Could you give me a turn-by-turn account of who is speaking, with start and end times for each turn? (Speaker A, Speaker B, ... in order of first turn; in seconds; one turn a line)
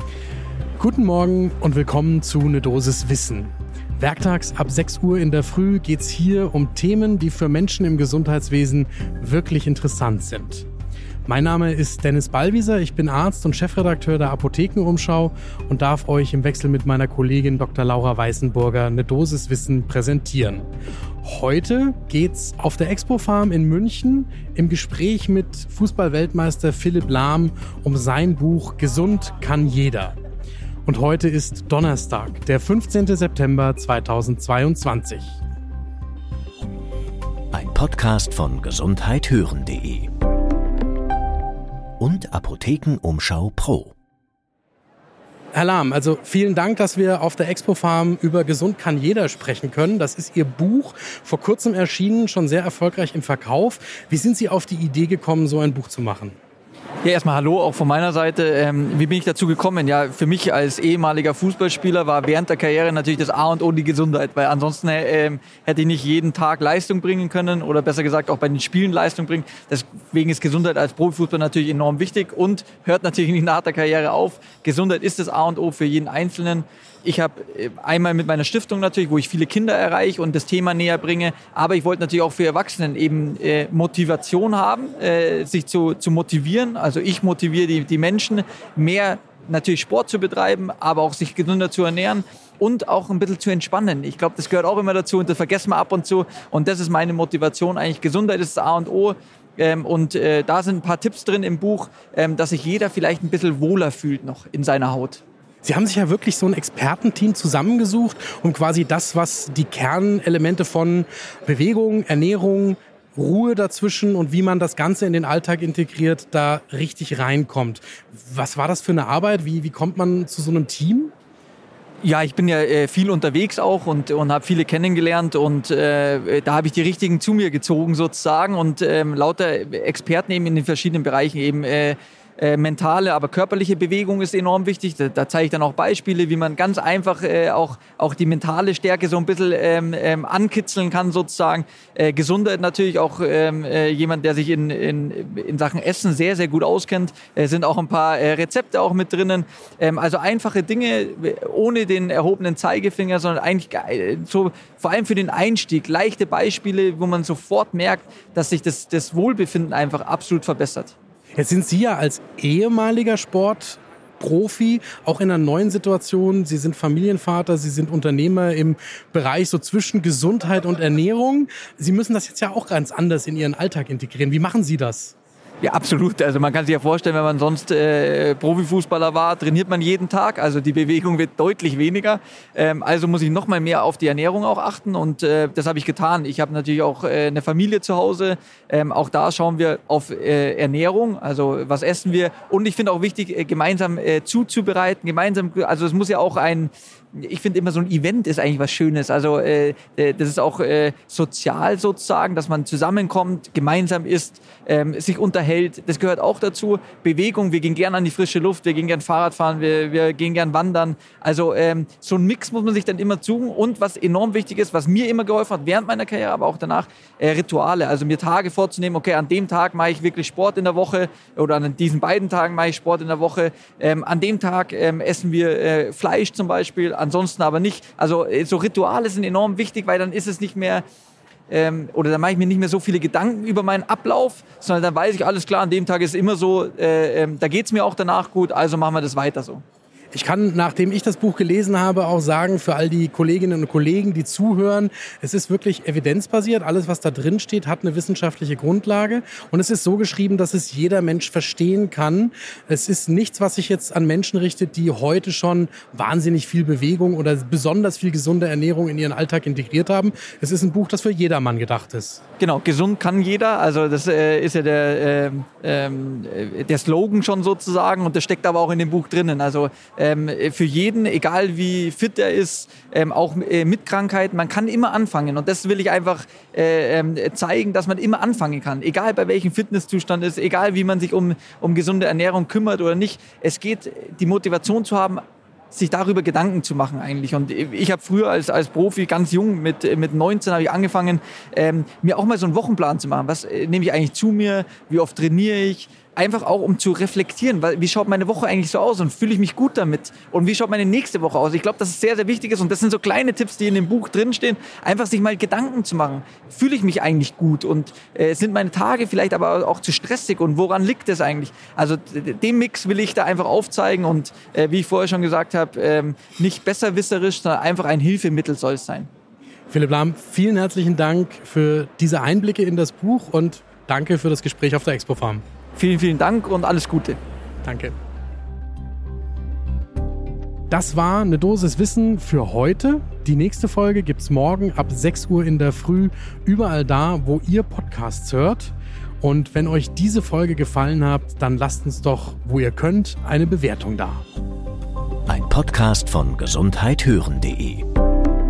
Speaker A: 0.8-10.7
Speaker A: 11.3-20.7
Speaker A: 21.2-30.2
Speaker A: 30.9-35.4
Speaker B: 37.5-40.1
Speaker B: 42.0-43.9
Speaker A: 45.5-56.4
Speaker C: 57.0-105.2
Speaker A: 105.7-121.1
Speaker C: 122.0-160.9
Speaker A: 161.4-175.2
Speaker C: 175.6-230.8
Speaker C: 231.5-239.6
Speaker A: 240.1-262.2
Speaker C: 262.4-319.1
Speaker A: 319.7-325.4
Speaker C: 325.8-327.2
Speaker A: 327.6-327.9
Speaker A: 330.7-344.2
Speaker B: 345.3-347.9